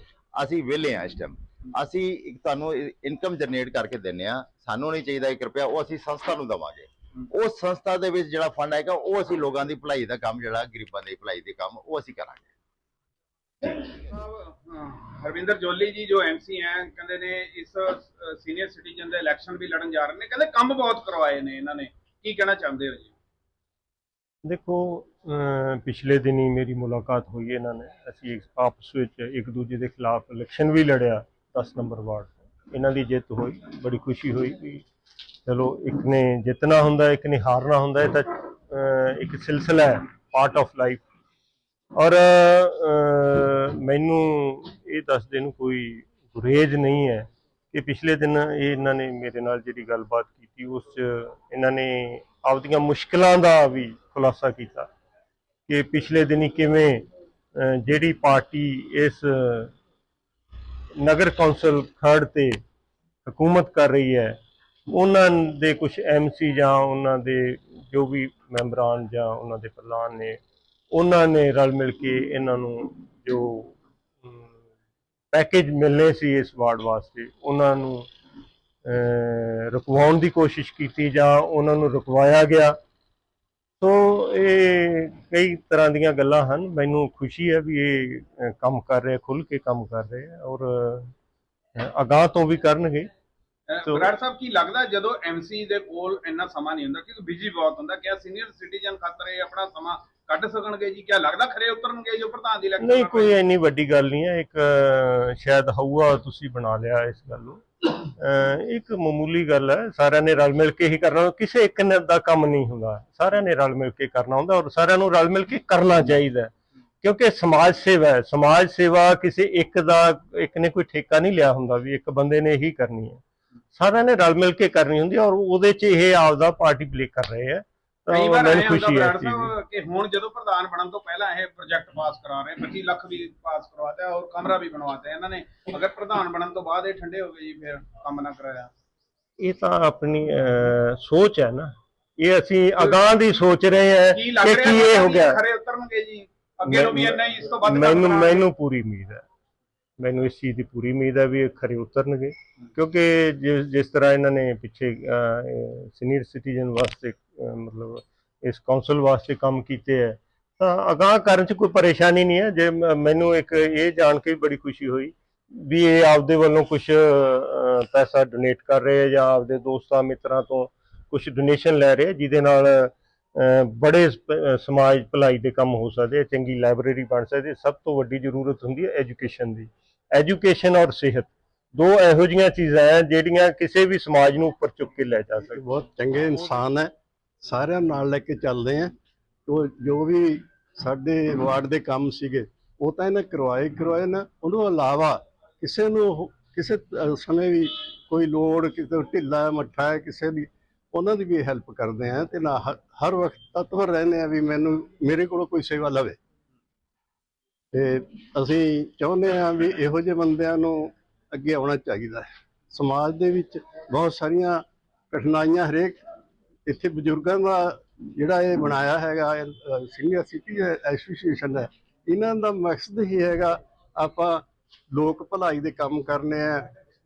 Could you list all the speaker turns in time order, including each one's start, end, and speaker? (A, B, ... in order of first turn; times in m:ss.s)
0:00.4-0:12.5 A
0:13.6-0:23.1 B
0:24.4-0:34.8 C
0:35.4-0:41.0 C
0:42.0-0:54.9 C
0:55.7-0:57.0 C
0:57.6-0:59.7 C
1:01.0-1:02.6 C
1:03.2-1:04.4 C
1:04.9-1:10.4 C
1:10.9-1:14.5 C
1:15.3-1:18.1 C
1:18.8-1:22.7 C
1:23.8-1:31.1 C
1:31.8-1:33.1 C
1:33.7-1:43.4 B
1:33.8-1:34.1 C
1:42.8-2:03.2 C
2:03.7-2:09.5 C
2:08.1-2:18.7 B
2:19.4-2:25.4 C
2:24.1-2:28.4 B
2:26.6-2:29.2 C
2:30.0-3:05.6 C
3:05.4-3:08.9 D
3:09.4-3:26.2 D
3:27.7-3:36.0 D
3:36.7-3:46.6 D